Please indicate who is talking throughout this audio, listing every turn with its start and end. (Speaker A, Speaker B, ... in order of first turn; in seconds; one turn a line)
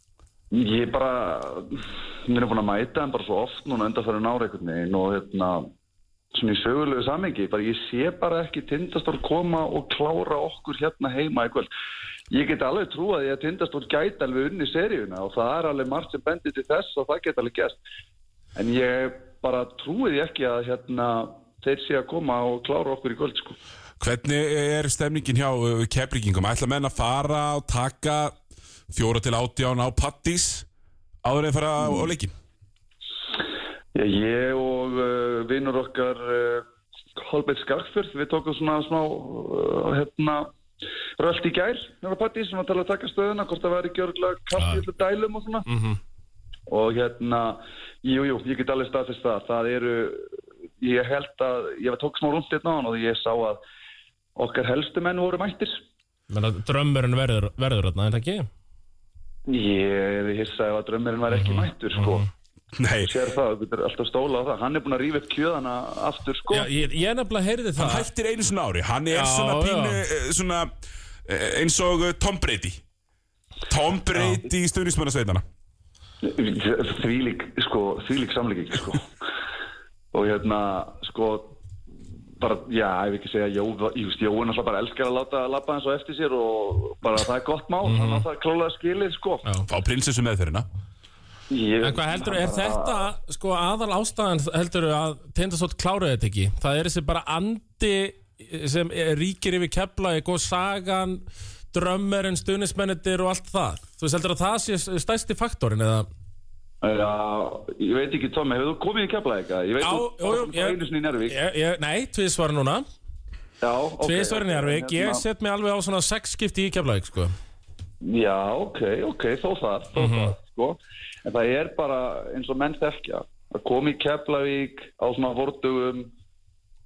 Speaker A: 0.5-5.7
Speaker A: 6.3-11.7
Speaker A: 12.3-17.8
Speaker A: 18.6-23.6
Speaker B: 24.0-28.4
Speaker B: 28.9-30.7
Speaker B: 31.2-32.3
Speaker A: 33.9-36.6
Speaker A: 37.2-40.5
Speaker A: 41.2-45.7
Speaker C: 44.6-44.8
Speaker C: 45.7-46.0
Speaker A: 46.7-53.6
Speaker A: 54.4-55.8
Speaker C: 56.3-58.5
Speaker A: 59.5-62.2
Speaker C: 61.3-62.3
Speaker B: 62.8-63.1
Speaker A: 63.0-66.7
Speaker C: 66.5-68.1
Speaker B: 67.8-70.7
Speaker C: 69.1-70.0
Speaker B: 71.2-72.8
Speaker B: 73.7-75.4
Speaker C: 74.1-74.4
Speaker A: 76.2-79.1
Speaker A: 80.1-81.6
Speaker A: 82.4-89.4
Speaker C: 87.8-88.2
Speaker B: 89.7-90.7
Speaker A: 91.5-93.1
Speaker C: 91.8-106.1
Speaker A: 106.8-111.4
Speaker C: 109.8-112.8
Speaker A: 113.6-115.2
Speaker C: 114.0-117.3
Speaker A: 118.0-126.1
Speaker C: 120.0-120.3